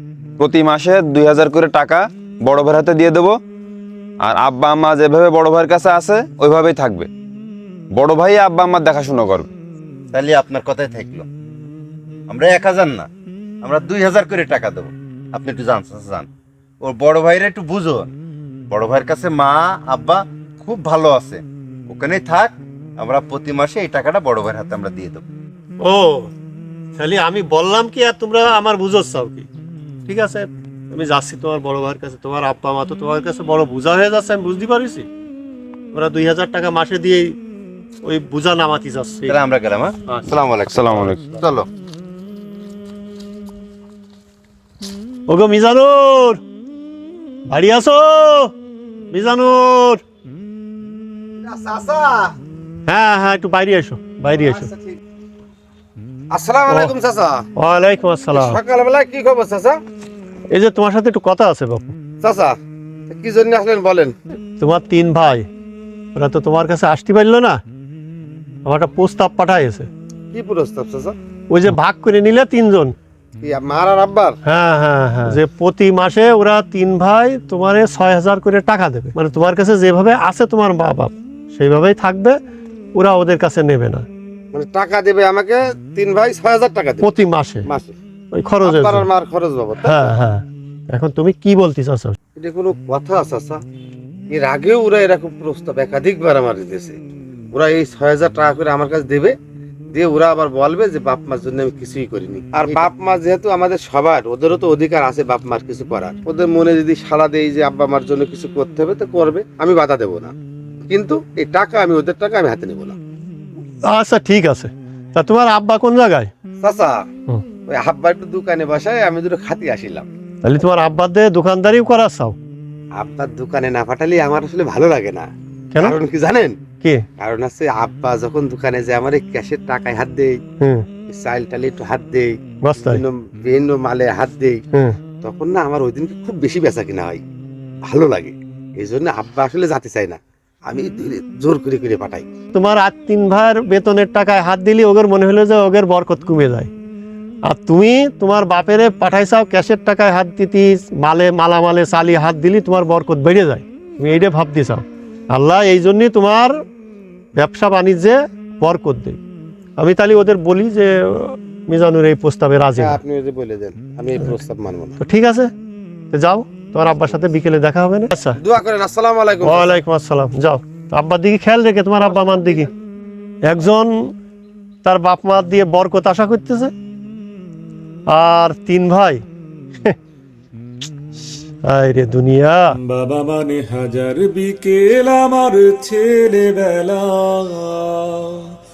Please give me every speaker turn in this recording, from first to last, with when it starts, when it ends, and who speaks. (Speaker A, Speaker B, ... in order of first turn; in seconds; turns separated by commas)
Speaker A: 0.4-3.4, Speaker A: 4.2-7.1, Speaker A: 7.9-9.5, Speaker B: 10.1-11.3, Speaker B: 12.3-13.1, Speaker B: 13.6-16.3, Speaker B: 16.8-18.1, Speaker B: 18.7-25.2, Speaker C: 25.8-26.3, Speaker C: 26.9-29.5, Speaker C: 30.1-35.1, Speaker C: 35.9-37.3, Speaker C: 38.0-39.4, Speaker B: 39.3-41.7, Speaker C: 40.1-40.3, Speaker A: 40.7-41.2, Speaker C: 45.3-46.4, Speaker C: 47.5-48.5, Speaker C: 49.1-50.0, Speaker D: 51.4-52.3, Speaker C: 52.9-54.7, Speaker D: 54.4-55.0, Speaker D: 56.3-57.4, Speaker C: 56.7-56.9, Speaker C: 57.6-58.6, Speaker D: 58.3-59.8, Speaker C: 60.5-61.9, Speaker D: 62.2-62.6, Speaker D: 63.1-64.1, Speaker C: 64.6-65.5, Speaker C: 66.1-67.6, Speaker C: 68.6-69.9, Speaker D: 70.3-71.1, Speaker C: 71.5-72.9, Speaker D: 73.4-74.4, Speaker C: 74.4-82.4, Speaker C: 82.9-84.0, Speaker D: 84.5-87.9, Speaker C: 87.0-87.7, Speaker C: 88.3-89.1, Speaker D: 88.6-90.2, Speaker C: 89.8-92.2, Speaker D: 92.4-93.6, Speaker D: 94.3-97.0, Speaker D: 97.5-99.3, Speaker D: 99.9-110.3, Speaker D: 110.9-113.0, Speaker C: 113.8-116.3, Speaker D: 116.6-117.0, Speaker D: 117.7-120.1, Speaker C: 120.4-122.3, Speaker D: 123.0-125.3, Speaker D: 125.8-126.5, Speaker D: 127.2-130.4, Speaker C: 130.6-130.8, Speaker D: 131.1-134.6, Speaker C: 132.6-133.0, Speaker D: 135.2-137.2, Speaker D: 137.8-142.2, Speaker C: 142.5-146.7, Speaker C: 147.4-156.6, Speaker C: 157.3-159.2, Speaker C: 159.8-163.0, Speaker D: 162.8-165.0, Speaker C: 165.0-165.5, Speaker C: 166.1-168.4, Speaker D: 168.4-169.8, Speaker C: 169.4-172.7, Speaker C: 173.4-174.1, Speaker C: 174.8-176.7, Speaker C: 178.1-179.2, Speaker C: 181.7-182.7, Speaker E: 182.7-188.4